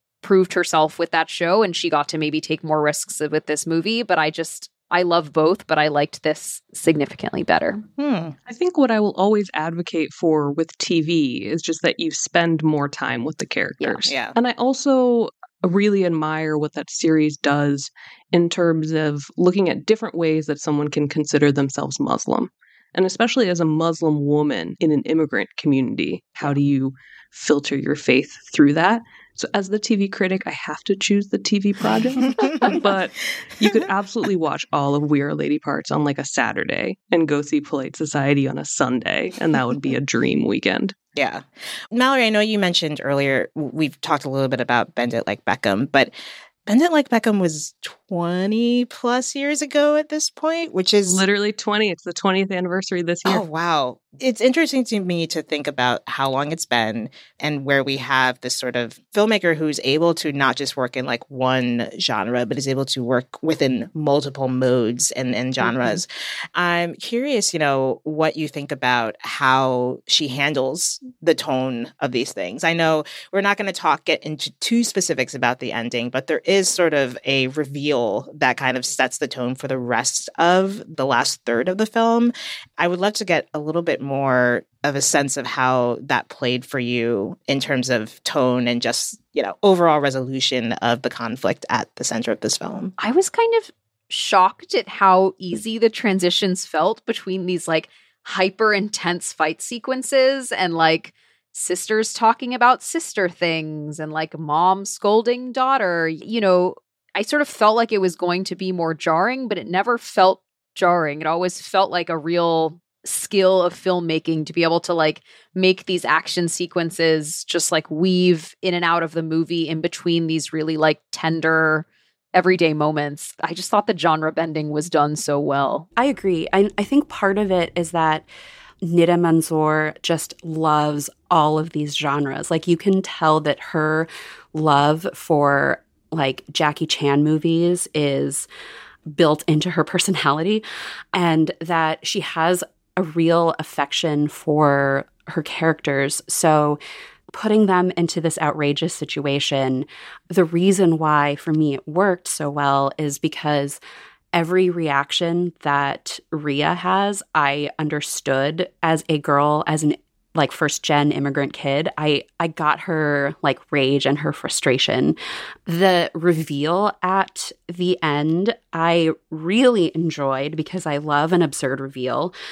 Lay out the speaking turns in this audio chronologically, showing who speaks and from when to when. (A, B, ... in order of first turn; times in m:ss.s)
0:00.2-0:07.8 A
0:08.0-0:08.4 B
0:08.5-0:41.0 C
0:13.8-0:14.1 A
0:14.1-0:14.4 B
0:32.2-0:32.8 B
0:41.2-0:46.1 B
0:46.7-0:51.2 B
0:51.0-0:53.4 C
0:53.3-1:32.9 B
1:05.6-1:06.0 A
1:33.0-2:05.9 A
2:06.0-2:08.3 D
2:08.8-2:18.5 D
2:19.1-2:26.8 D
2:27.3-2:33.8 D
2:34.3-2:52.4 D